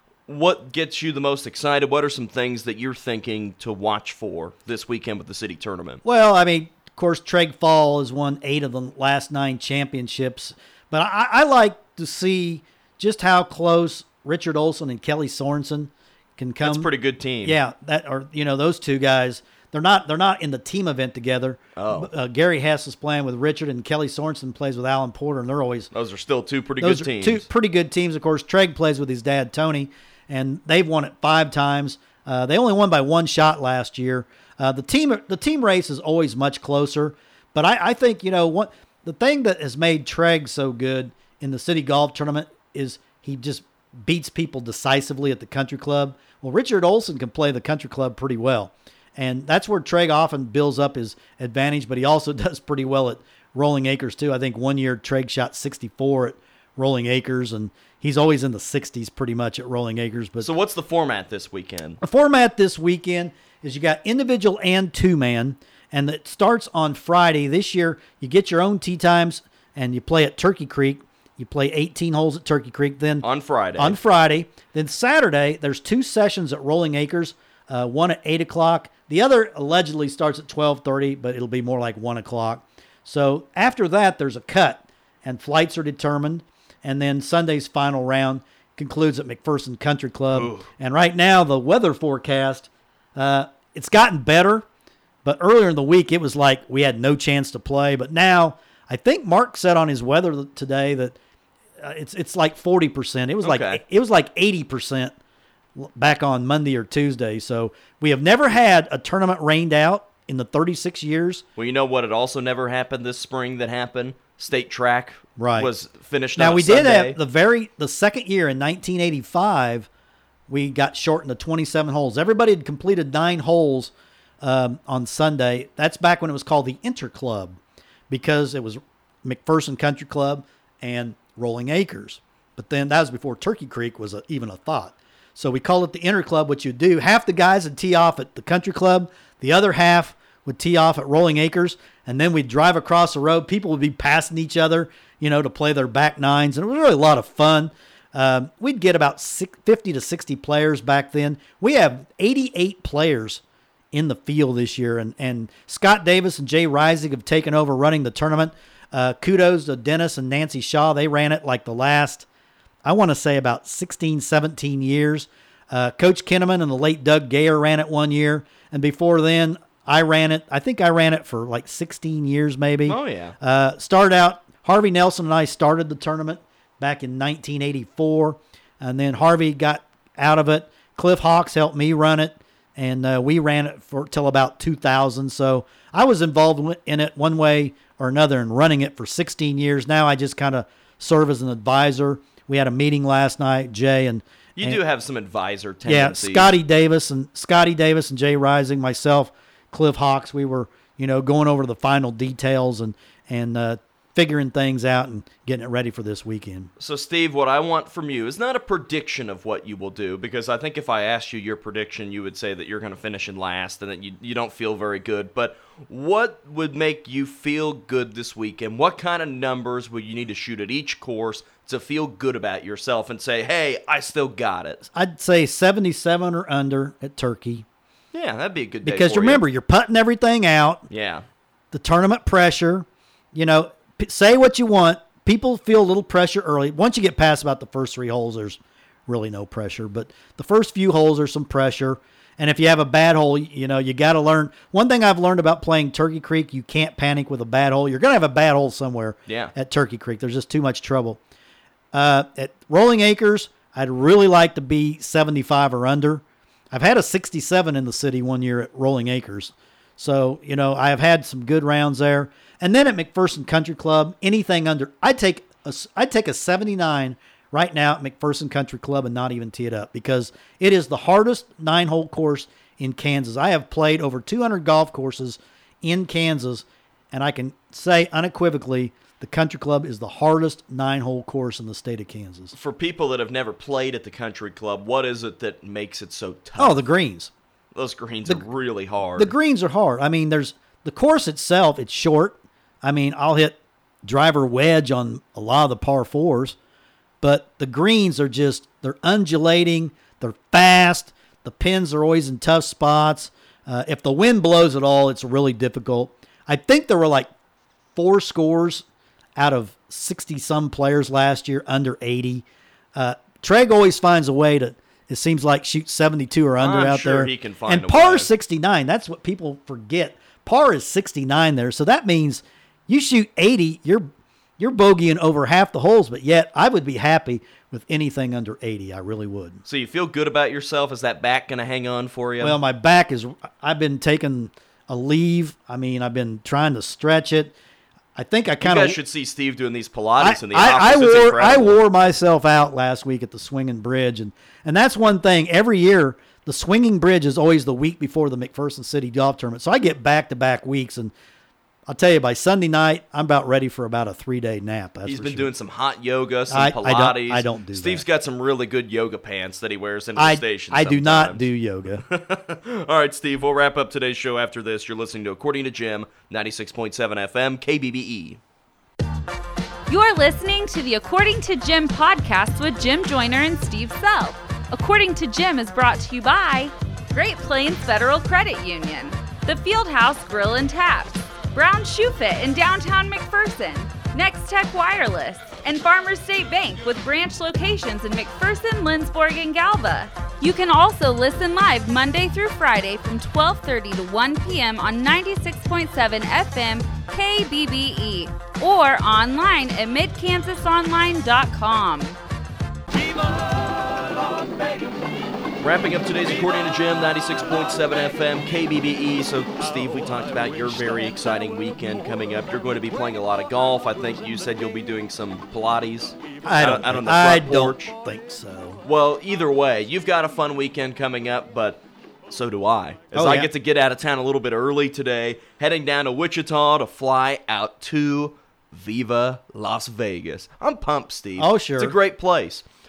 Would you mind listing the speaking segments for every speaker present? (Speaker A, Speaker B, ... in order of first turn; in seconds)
Speaker A: 0.3-6.0, 16.6-17.6, 21.8-22.1, 25.9-27.4, 60.4-62.0, 73.2-74.0, 90.3-90.7, 103.4-103.8, 111.6-117.2, 172.8-173.3, 194.6-196.5, 206.8-224.8, 228.1-229.4, 230.9-231.2, 249.3-249.5, 282.5-286.8, 287.7-289.3, 316.6-318.3, 329.7-332.6, 338.6-341.7, 355.1-361.4, 361.9-368.4, 403.3-404.1, 405.6-417.9, 418.8-432.6
Speaker B: 6.0-16.9, 17.4-25.9, 26.8-60.5, 62.0-73.2, 73.8-94.7, 95.2-101.2, 101.8-105.1, 105.8-111.4, 115.4-115.7, 116.3-119.9, 120.5-127.6, 128.1-153.4, 153.9-162.2, 162.8-194.8, 195.8-206.7, 224.9-227.6, 228.8-230.8, 231.7-251.2, 251.9-282.5, 286.6-287.3, 289.1-296.6, 297.2-307.3, 307.9-308.8, 309.4-329.6, 332.4-337.5, 338.1-339.0, 340.2-351.1, 351.9-355.5, 356.5-358.0, 360.1-362.0, 416.4-418.8, 423.1-423.5, 431.4-431.9
Speaker C: 369.9-402.2